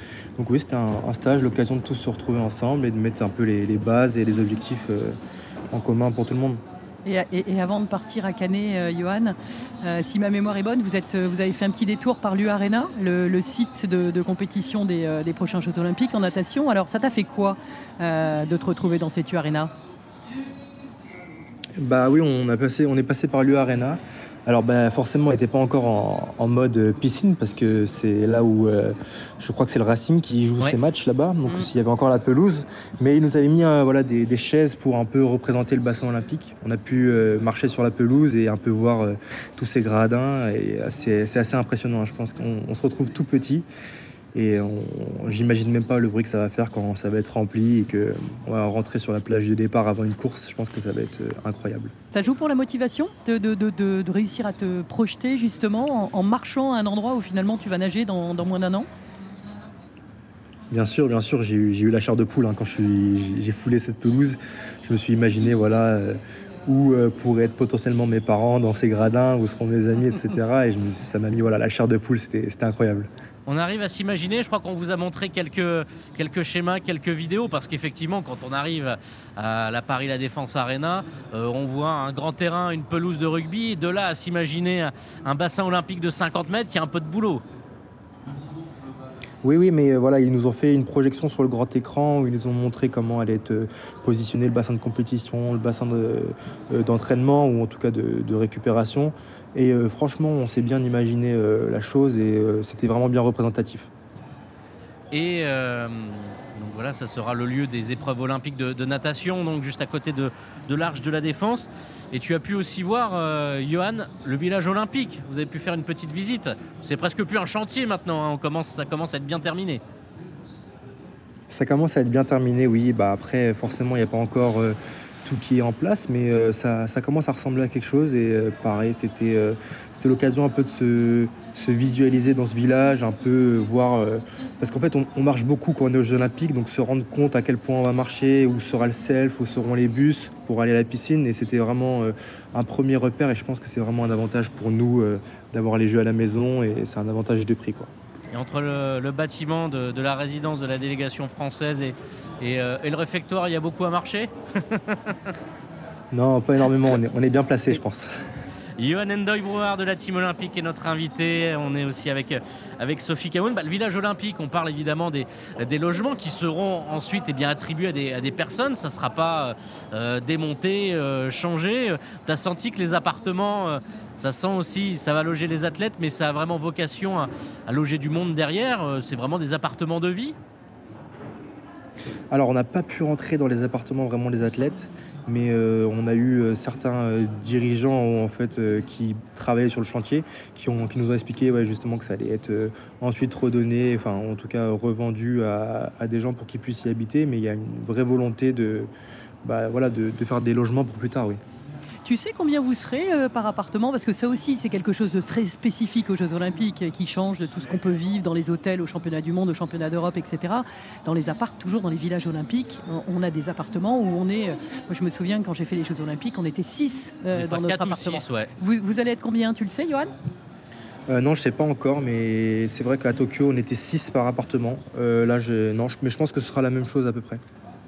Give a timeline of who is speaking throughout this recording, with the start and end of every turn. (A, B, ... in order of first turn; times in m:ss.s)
0:00.4-0:05.2 A
0:05.7-0:06.6 A
0:07.0-0:19.7 B
0:21.8-0:43.6 A
0:44.3-0:51.9 A
0:52.1-0:58.9 B
1:00.7-1:13.1 A
1:13.5-1:27.4 C
1:29.4-1:43.9 A
1:45.1-1:59.8 C
2:01.5-2:27.9 A
2:28.3-2:35.3 C
2:36.1-2:38.1 A
2:38.8-3:00.3 C
3:02.3-3:18.9 A
3:19.4-3:21.4 A
3:22.0-3:40.1 B
3:37.3-3:38.5 C
3:41.1-3:47.4 A